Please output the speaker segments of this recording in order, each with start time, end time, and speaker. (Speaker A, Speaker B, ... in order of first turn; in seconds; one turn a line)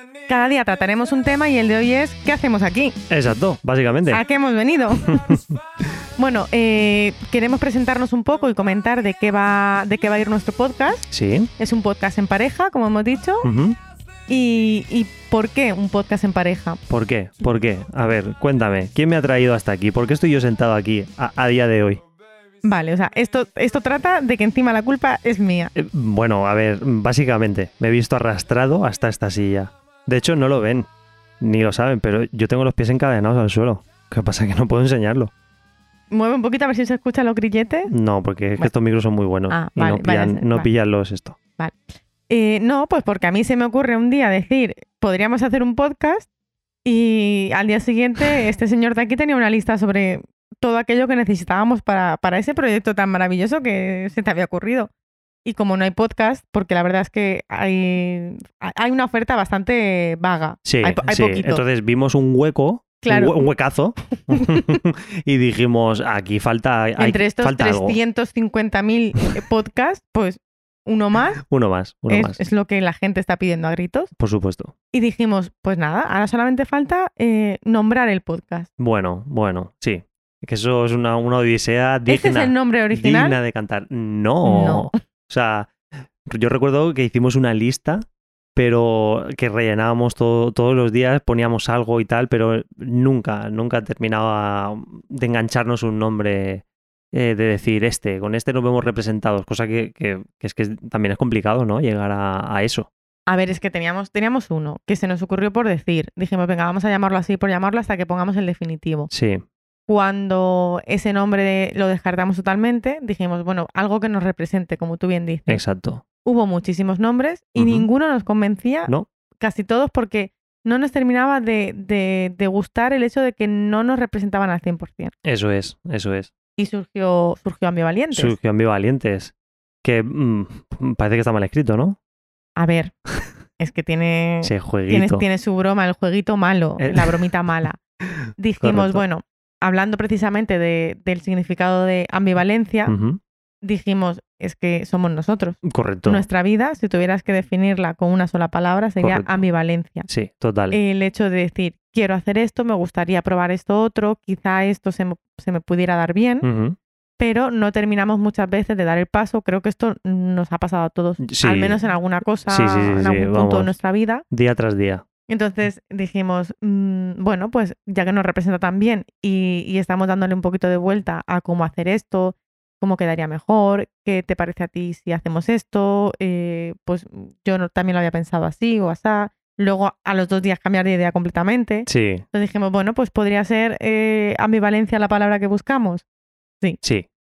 Speaker A: 0.3-3.0
Speaker B: 3.1-4.2
Speaker A: 4.1-5.5
Speaker B: 5.2-5.4
Speaker A: 6.2-13.5
Speaker B: 11.1-11.5
Speaker B: 13.4-13.8
Speaker A: 14.3-16.8
Speaker B: 16.9-22.0
Speaker A: 22.6-25.7
Speaker B: 25.8-30.9
Speaker B: 31.4-35.3
Speaker A: 36.1-37.9
Speaker B: 37.9-41.4
Speaker A: 39.5-40.7
Speaker A: 41.6-46.3
Speaker A: 46.8-54.9
Speaker A: 55.5-61.6
Speaker B: 60.7-68.0
Speaker A: 63.0-63.5
Speaker A: 64.2-64.8
Speaker A: 67.0-71.4
Speaker B: 71.4-72.4
Speaker A: 72.1-74.1
Speaker B: 74.2-74.7
Speaker A: 74.9-78.7
Speaker B: 78.8-85.7
Speaker A: 82.1-83.4
Speaker A: 84.5-84.9
Speaker B: 86.2-88.0
Speaker B: 88.6-102.9
Speaker A: 103.3-109.1
Speaker B: 109.1-109.4
Speaker A: 109.9-115.6
Speaker B: 115.5-116.0
Speaker A: 116.2-125.1
Speaker B: 117.6-117.9
Speaker B: 125.2-126.3
Speaker A: 126.6-128.4
Speaker B: 128.1-132.0
Speaker A: 132.6-132.9
Speaker A: 133.6-137.8
Speaker B: 134.4-135.3
Speaker B: 136.8-137.2
Speaker A: 138.4-142.9
Speaker B: 138.6-139.0
Speaker B: 142.9-143.2
Speaker A: 143.6-150.1
Speaker B: 145.6-146.3
Speaker B: 149.0-149.4
Speaker B: 150.1-150.8
Speaker A: 150.7-156.5
Speaker B: 156.4-156.8
Speaker A: 157.2-164.2
Speaker B: 161.2-161.8
Speaker B: 162.5-163.8
Speaker B: 164.3-165.0
Speaker A: 165.3-186.1
Speaker B: 181.9-182.2